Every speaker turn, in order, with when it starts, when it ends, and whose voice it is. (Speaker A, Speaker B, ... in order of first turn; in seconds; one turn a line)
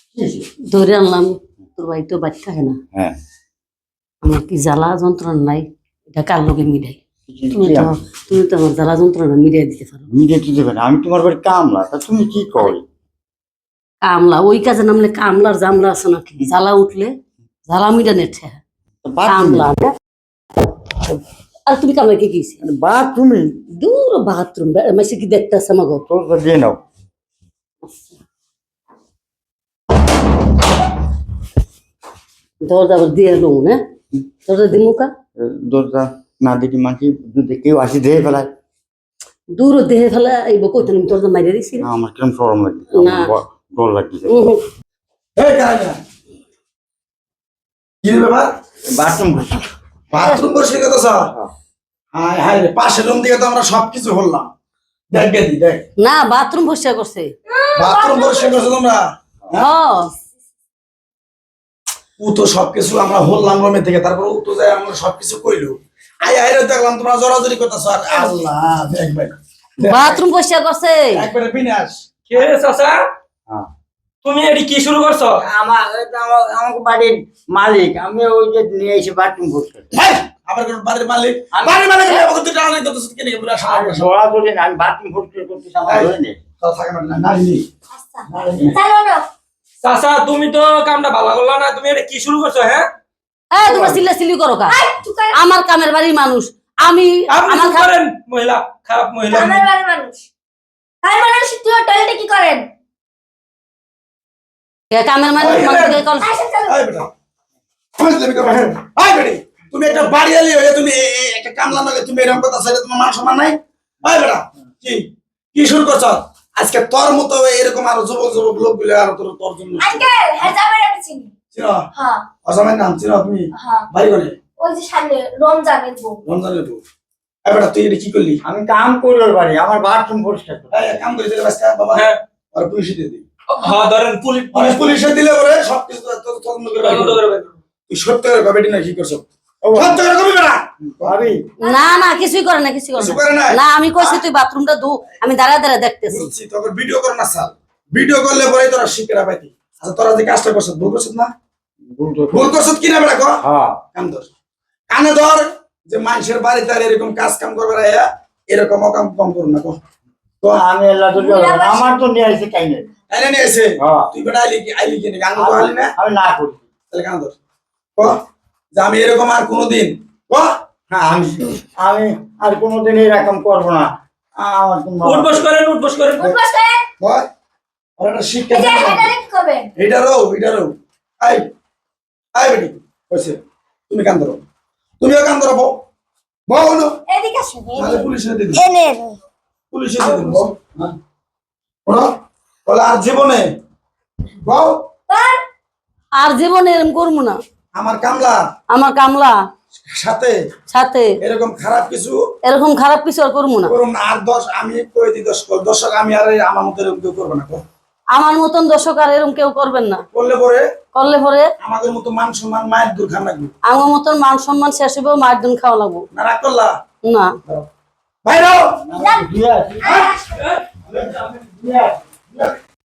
Speaker A: 0.1-0.4
Speaker B: 0.7-2.8
Speaker B: 4.2-7.0
Speaker A: 7.3-7.9
Speaker B: 7.5-10.1
Speaker A: 10.1-12.8
Speaker B: 14.0-17.1
Speaker B: 17.6-18.6
Speaker A: 19.0-19.7
Speaker B: 19.2-19.9
Speaker B: 21.7-22.6
Speaker A: 22.6-23.6
Speaker B: 23.8-26.0
Speaker A: 26.1-26.8
Speaker B: 32.6-33.8
Speaker B: 34.5-35.1
Speaker A: 35.4-38.5
Speaker B: 39.5-41.9
Speaker A: 41.8-44.3
Speaker B: 42.9-43.3
Speaker B: 44.3-44.6
Speaker C: 45.4-46.0
Speaker C: 48.0-48.5
Speaker A: 48.9-49.6
Speaker C: 50.1-51.3
Speaker C: 52.1-54.5
Speaker C: 55.1-55.8
Speaker B: 56.0-57.3
Speaker D: 57.5-58.8
Speaker C: 57.8-59.7
Speaker B: 59.5-60.1
Speaker C: 62.2-70.2
Speaker B: 69.8-71.2
Speaker C: 71.2-72.0
Speaker E: 72.3-73.0
Speaker E: 74.2-75.4
Speaker A: 75.4-79.9
Speaker C: 79.9-84.1
Speaker A: 83.6-86.4
Speaker C: 85.9-87.7
Speaker D: 87.9-89.3
Speaker C: 88.3-88.7
Speaker E: 89.8-92.9
Speaker B: 93.5-94.8
Speaker D: 94.7-95.4
Speaker B: 95.3-97.9
Speaker E: 97.3-99.6
Speaker D: 99.3-100.2
Speaker D: 101.0-102.7
Speaker B: 104.9-106.3
Speaker C: 105.4-106.0
Speaker E: 105.6-106.0
Speaker D: 106.2-106.8
Speaker C: 106.7-107.1
Speaker C: 108.0-120.5
Speaker D: 119.8-121.3
Speaker C: 121.5-121.9
Speaker D: 121.9-122.3
Speaker C: 122.4-124.4
Speaker D: 123.5-123.9
Speaker D: 124.5-126.2
Speaker C: 126.2-126.8
Speaker C: 127.4-128.4
Speaker A: 128.4-130.8
Speaker C: 130.7-133.2
Speaker E: 131.9-132.2
Speaker E: 133.5-135.0
Speaker C: 134.5-137.2
Speaker E: 136.8-137.5
Speaker C: 137.9-141.3
Speaker A: 139.6-140.0
Speaker A: 141.0-141.4
Speaker D: 141.6-142.2
Speaker B: 141.6-146.3
Speaker C: 142.9-144.2
Speaker C: 146.1-151.3
Speaker A: 151.9-152.6
Speaker C: 152.3-153.4
Speaker A: 153.4-153.8
Speaker C: 153.9-154.3
Speaker C: 154.9-159.8
Speaker A: 160.4-162.8
Speaker D: 161.2-161.9
Speaker C: 163.1-165.9
Speaker A: 163.8-164.1
Speaker A: 165.3-166.6
Speaker C: 166.9-167.3
Speaker C: 168.7-170.5
Speaker A: 170.9-175.4
Speaker E: 175.0-176.3
Speaker D: 176.2-176.9
Speaker C: 177.0-177.2
Speaker C: 178.0-179.1
Speaker D: 178.5-179.7
Speaker C: 179.8-181.5
Speaker C: 182.3-184.4
Speaker C: 185.0-185.8
Speaker C: 186.5-187.0
Speaker D: 187.1-188.1
Speaker C: 187.7-188.7
Speaker C: 189.7-190.9
Speaker D: 190.1-190.4
Speaker C: 192.7-193.5
Speaker C: 194.4-194.8
Speaker D: 195.1-195.4
Speaker B: 196.2-197.4
Speaker C: 197.7-198.4
Speaker B: 198.7-199.4
Speaker C: 199.8-200.3
Speaker B: 200.7-201.1
Speaker C: 201.2-202.2
Speaker B: 202.4-203.7
Speaker C: 203.7-207.6
Speaker B: 208.1-210.0
Speaker C: 210.1-210.7
Speaker B: 210.9-211.5
Speaker C: 211.6-213.5
Speaker B: 213.7-216.0
Speaker C: 216.1-216.7
Speaker B: 217.0-217.3
Speaker C: 218.2-218.9
Speaker A: 218.9-220.0
Speaker D: 218.9-219.3
Speaker D: 219.8-220.4
Speaker A: 220.9-222.4